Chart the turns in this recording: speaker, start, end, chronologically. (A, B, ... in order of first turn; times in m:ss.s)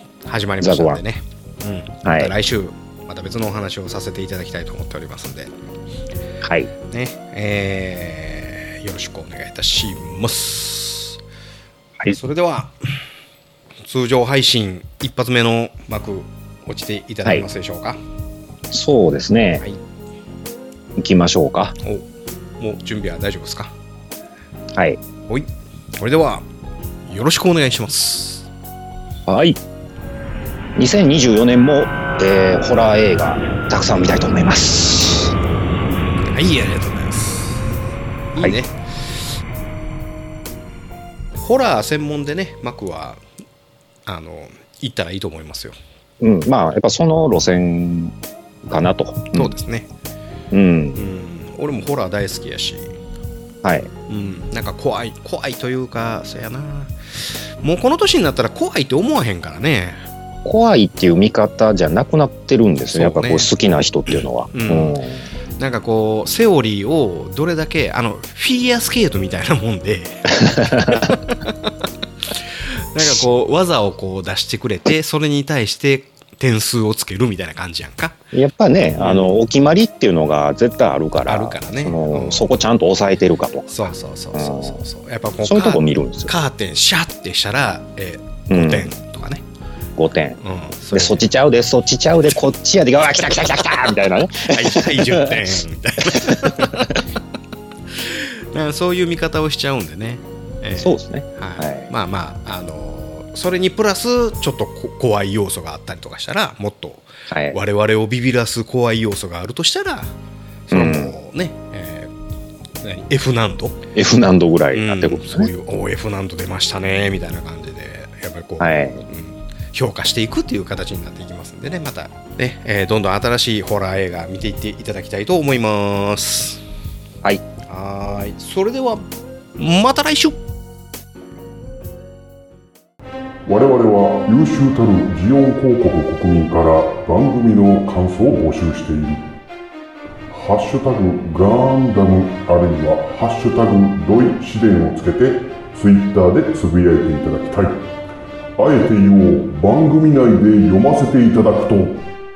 0:00.2-0:05.5 A
0:00.6-0:01.0 B
0:02.0-0:02.3 B
0:06.4-0:06.7 B
0:06.9-0:11.2 A
0:12.1-0:12.7 A
0:13.8-0:18.0 A
0:18.7-0:19.6 B
0:21.0-0:21.7 B
0:22.6-0:23.7 A
0:24.7-0:25.0 B
0:25.3-0:26.4 A
0:27.1-0:28.5 A
0:29.3-0:29.6 B
0:30.8-0:35.3 B
0:36.3-0:37.6 A
0:38.3-0:39.3 A
0:41.4-0:43.2 A
0:44.0-0:45.8 A
0:46.2-0:49.5 B
0:49.3-0:49.9 A
0:50.5-0:51.0 B
0:51.0-0:52.9 A
0:53.6-0:53.9 B
0:54.1-1:00.0 A
1:00.4-1:05.2 B
1:02.9-1:03.5 A
1:04.1-1:05.0 A
1:05.6-1:11.7 A
1:10.5-1:11.1 B
1:12.3-1:18.2 A
1:18.3-1:24.8 B
1:19.0-1:19.4 A
1:21.2-1:22.5 A
1:23.7-1:29.4 A
1:25.4-1:26.3 B
1:28.5-1:28.9 B
1:30.0-1:30.4 B
1:30.4-1:31.2 A
1:30.9-1:37.0 B
1:34.4-1:36.9 A
1:37.9-1:50.1 A
1:40.8-1:41.9 B
1:47.3-1:47.6 B
1:50.7-1:52.1 A
1:50.7-1:51.1 B
1:52.8-1:53.8 A
1:54.0-1:55.5 B
1:54.7-2:06.6 A
1:58.6-1:59.0 B
2:07.7-2:10.4 A
2:13.4-2:19.2 C
2:20.3-2:27.9 C
2:28.6-2:32.0 C